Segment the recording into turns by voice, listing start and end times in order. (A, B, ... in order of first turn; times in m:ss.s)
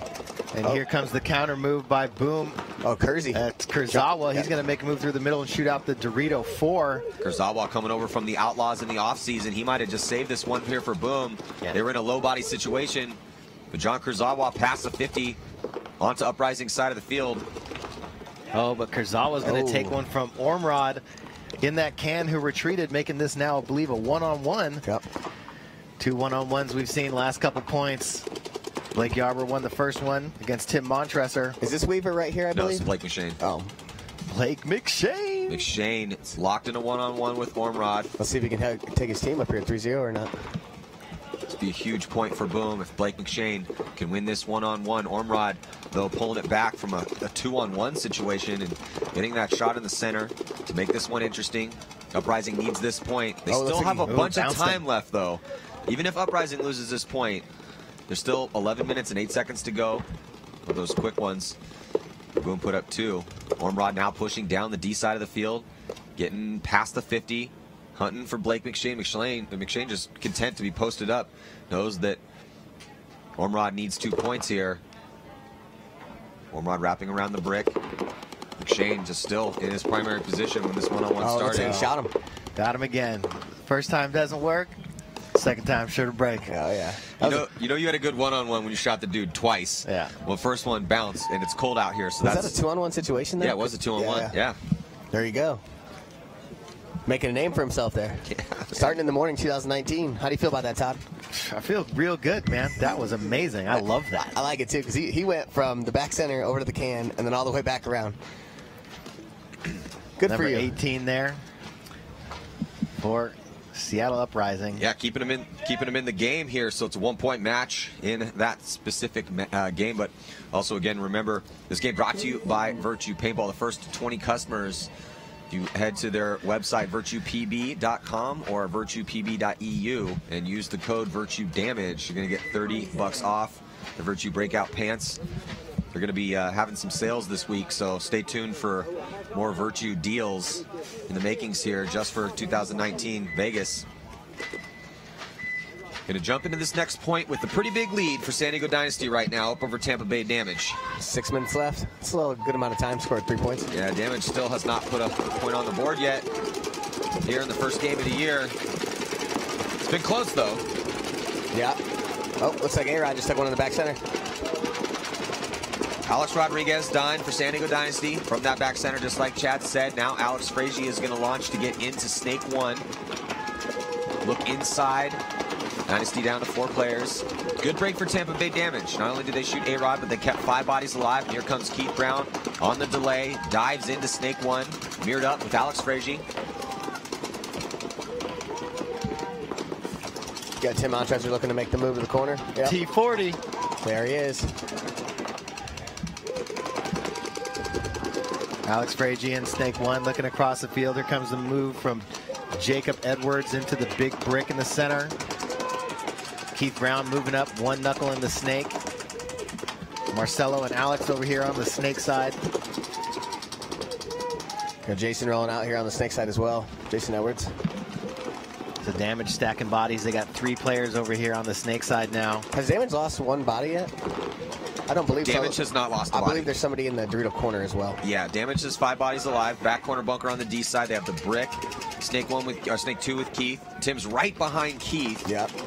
0:00.5-0:02.7 A
0:02.8-0:04.5 B
0:03.3-0:07.0 A
0:07.2-0:13.2 C
0:13.7-0:15.4 C
0:16.0-0:17.4 C
0:18.5-0:21.0 A
0:19.4-0:20.0 B
0:21.6-0:24.8 A
0:26.0-0:28.3 A
0:28.9-0:31.6 A
0:31.6-0:32.9 B
0:32.5-0:33.4 C
0:33.4-0:33.7 B
0:34.3-0:35.6 A
0:35.5-0:38.1 C
0:38.2-0:40.3 B
0:41.5-0:57.4 C
0:53.5-0:54.3 B
0:54.0-0:54.8 A
0:58.1-1:00.0 C
1:00.6-1:01.6 C
1:02.4-1:05.6 C
1:06.2-1:12.2 C
1:13.4-1:14.8 C
1:16.5-1:17.7 C
1:18.6-1:21.9 C
1:21.2-1:22.1 B
1:21.6-1:21.9 A
1:22.6-1:24.7 A
1:25.3-1:26.5 A
1:26.5-1:27.4 B
1:27.2-1:32.6 C
1:29.8-1:30.1 A
1:32.2-1:34.3 B
1:33.4-1:34.6 C
1:35.1-1:35.6 B
1:37.0-1:41.0 B
1:38.2-1:39.0 C
1:41.3-1:44.4 A
1:43.7-1:48.2 B
1:50.2-1:50.8 B
1:50.2-1:51.4 A
1:53.0-1:54.8 A
1:54.8-2:04.9 C
2:05.5-2:15.2 C
2:15.9-2:23.8 C
2:26.1-2:30.8 C
2:31.0-2:33.7 B
2:33.7-2:36.3 C
2:37.2-2:38.5 C
2:39.8-2:40.6 C
2:41.5-2:41.8 B
2:42.4-2:44.0 B
2:46.0-2:52.8 C
2:54.2-2:55.2 C
2:55.9-3:06.2 C
3:10.6-3:12.8 B
3:12.6-3:13.4 A
3:13.8-3:14.5 B
3:18.6-3:25.1 A
3:26.5-3:28.8 A
3:30.1-3:32.4 A
3:34.8-3:37.5 B
3:38.8-3:42.5 A
3:42.5-3:43.9 B
3:44.9-3:45.6 B
3:45.2-3:46.5 C
3:46.1-3:48.0 B
3:48.0-3:55.3 C
3:55.2-3:55.5 B